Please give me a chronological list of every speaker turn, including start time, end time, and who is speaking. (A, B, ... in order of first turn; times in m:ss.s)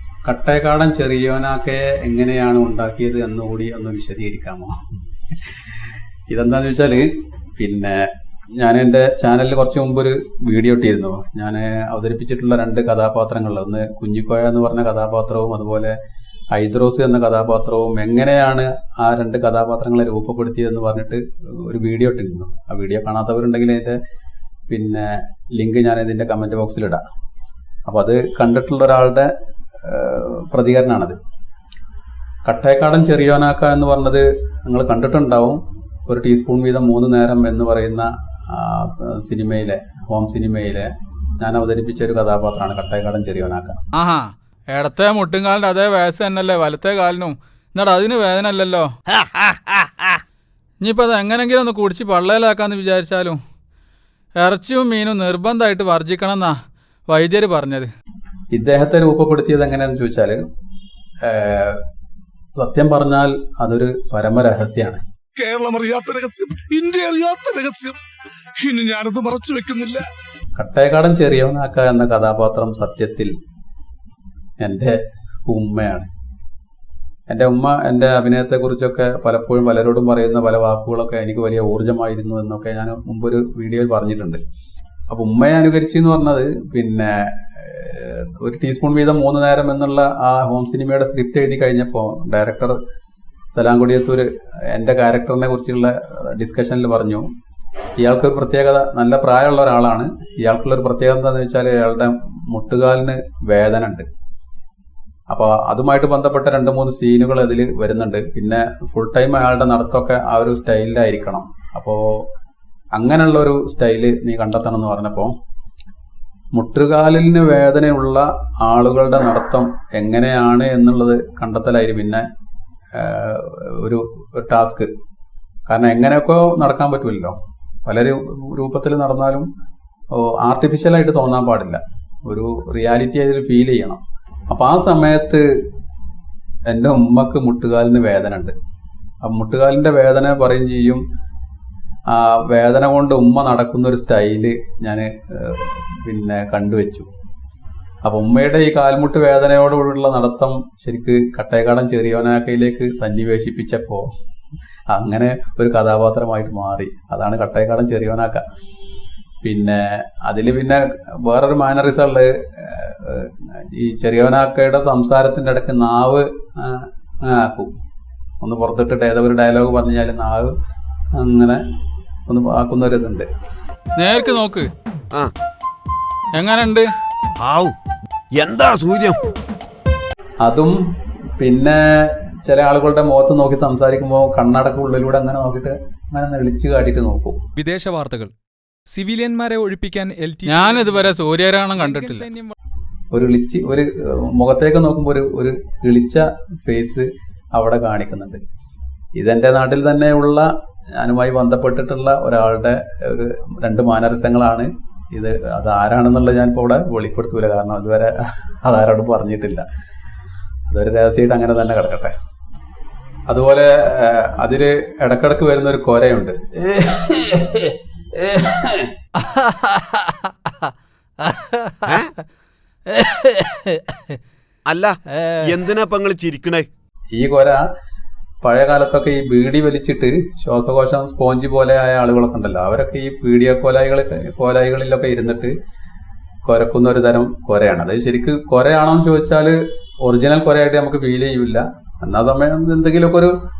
0:00.3-0:04.8 A
0:06.3-0:16.0 A
0:16.5-0:24.0 A
0:24.7-0:27.0 A
0:27.9-0:31.2 A
0:32.5-0:43.8 A
0:43.9-0:48.9 B
0:49.3-0:49.6 C
0:50.8-0:53.4 B
0:54.4-0:56.5 B
0:57.1-0:57.9 B
0:58.5-1:00.4 A
1:01.2-1:01.8 A
1:02.6-1:05.0 A
1:05.4-1:08.0 D
1:08.6-1:10.1 D
1:10.6-1:13.3 A
1:14.6-1:16.1 A
1:17.3-1:24.4 A
1:25.1-1:32.8 A
1:33.5-1:37.3 A
1:38.0-1:44.1 A
1:45.3-1:52.2 A
1:52.9-1:55.3 A
1:56.5-2:02.3 A
2:03.0-2:04.9 A
2:05.7-2:09.5 A
2:10.1-2:15.4 A
2:16.7-2:18.6 A
2:19.2-2:21.0 A
2:22.1-2:27.1 A
2:28.0-2:34.1 A
2:34.9-2:38.4 A
2:39.4-2:47.7 A
2:48.4-2:50.5 A
2:51.2-2:51.6 A
2:52.3-2:53.3 A
2:54.0-2:54.7 B
2:56.4-2:56.9 B
2:57.4-2:57.8 C
2:58.3-2:59.2 C
3:00.4-3:00.8 A
3:01.4-3:07.4 A
3:07.6-3:08.3 E
3:08.9-3:11.1 E
3:10.4-3:12.3 B
3:11.7-3:12.5 E
3:13.1-3:18.4 A
3:19.2-3:29.6 A
3:30.7-3:32.1 A
3:33.3-3:38.9 A
3:41.9-3:42.1 C
3:43.0-3:43.5 B
3:44.7-3:46.7 C
3:47.2-3:47.6 A
3:48.4-3:55.5 A
3:56.5-4:03.3 A